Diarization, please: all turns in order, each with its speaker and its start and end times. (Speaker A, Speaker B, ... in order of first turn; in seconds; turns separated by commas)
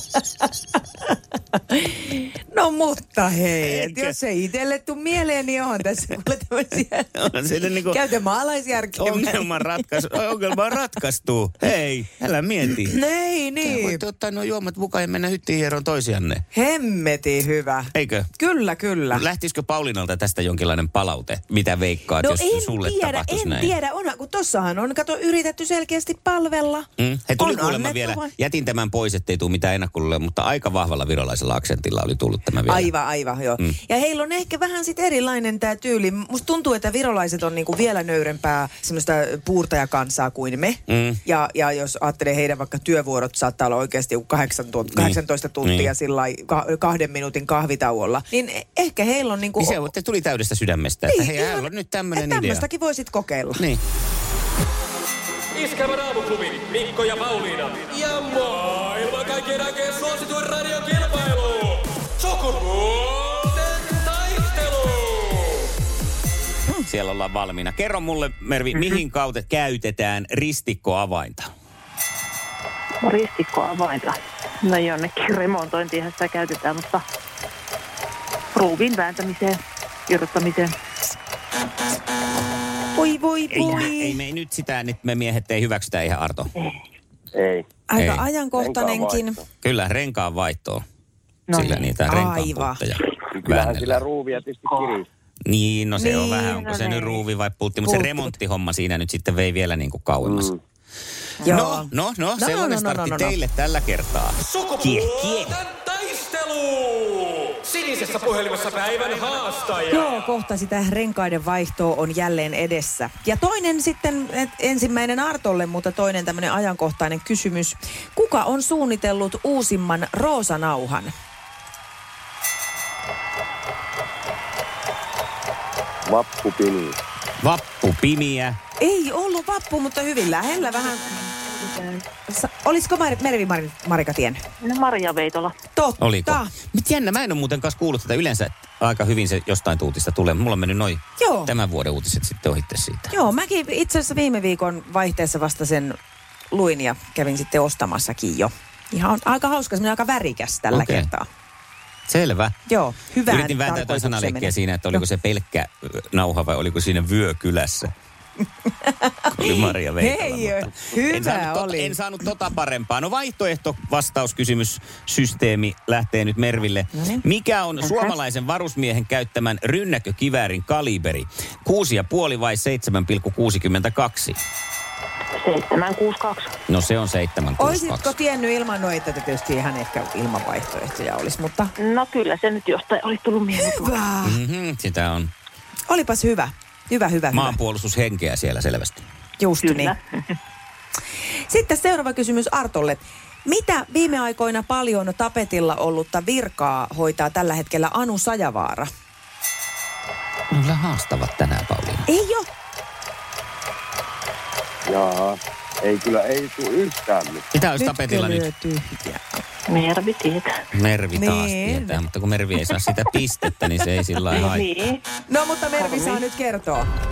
Speaker A: 1.7-7.1, Speaker B: 3.6-4.2, Speaker B: 7.2-8.0, Speaker A: 7.8-9.9, Speaker B: 9.0-13.0, Speaker A: 12.7-14.0, Speaker B: 13.6-16.4, Speaker A: 16.5-19.2, Speaker B: 17.9-18.3, Speaker B: 19.1-23.8, Speaker A: 22.2-28.3, Speaker B: 27.0-32.9, Speaker A: 32.7-49.9, Speaker B: 40.9-41.2, Speaker B: 44.9-45.9, Speaker B: 49.6-52.6, Speaker A: 51.1-53.6, Speaker B: 53.6-53.8, Speaker C: 55.5-65.6, Speaker B: 66.8-71.5, Speaker D: 73.0-77.0, Speaker D: 78.5-80.8, Speaker A: 83.0-84.2, Speaker B: 83.5-86.5, Speaker E: 87.3-87.7, Speaker A: 87.9-89.4, Speaker B: 88.0-88.2, Speaker E: 88.6-89.4, Speaker B: 89.6-90.8, Speaker D: 91.5-91.9, Speaker B: 91.5-94.0, Speaker A: 92.1-92.8, Speaker E: 93.3-95.1, Speaker B: 95.5-100.5, Speaker A: 96.0-96.7, Speaker D: 96.6-97.2, Speaker A: 97.8-98.3, Speaker E: 100.2-100.6, Speaker A: 101.4-103.4, Speaker B: 101.5-105.6, Speaker C: 104.5-110.0, Speaker A: 109.9-121.1, Speaker E: 126.1-127.0, Speaker B: 127.4-128.6, Speaker A: 128.8-131.3, Speaker D: 131.4-132.0, Speaker A: 132.3-134.4, Speaker D: 134.6-135.6, Speaker A: 135.8-136.5, Speaker B: 136.0-143.1, Speaker A: 141.2-141.5, Speaker A: 143.1-146.0, Speaker A: 146.5-151.3, Speaker B: 150.7-151.1, Speaker B: 152.1-152.6, Speaker A: 152.7-155.0, Speaker B: 153.3-157.9, Speaker A: 158.8-162.0, Speaker B: 159.3-174.4, Speaker A: 166.9-167.2, Speaker D: 175.4-176.6, Speaker B: 176.7-178.1, Speaker A: 177.6-181.7, Speaker D: 181.8-184.0, Speaker A: 183.6-184.4, Speaker B: 184.2-185.3, Speaker A: 185.9-187.6, Speaker B: 187.3-189.0, Speaker A: 189.4-189.9, Speaker D: 189.6-190.3, Speaker A: 191.5-198.9, Speaker B: 200.5-202.1, Speaker A: 202.1-202.5, Speaker E: 204.9-207.5, Speaker B: 207.5-208.5, Speaker A: 207.8-209.4, Speaker D: 209.7-210.6, Speaker B: 210.7-214.7, Speaker A: 211.1-212.0, Speaker D: 214.3-215.0, Speaker A: 215.3-216.9, Speaker D: 215.8-216.2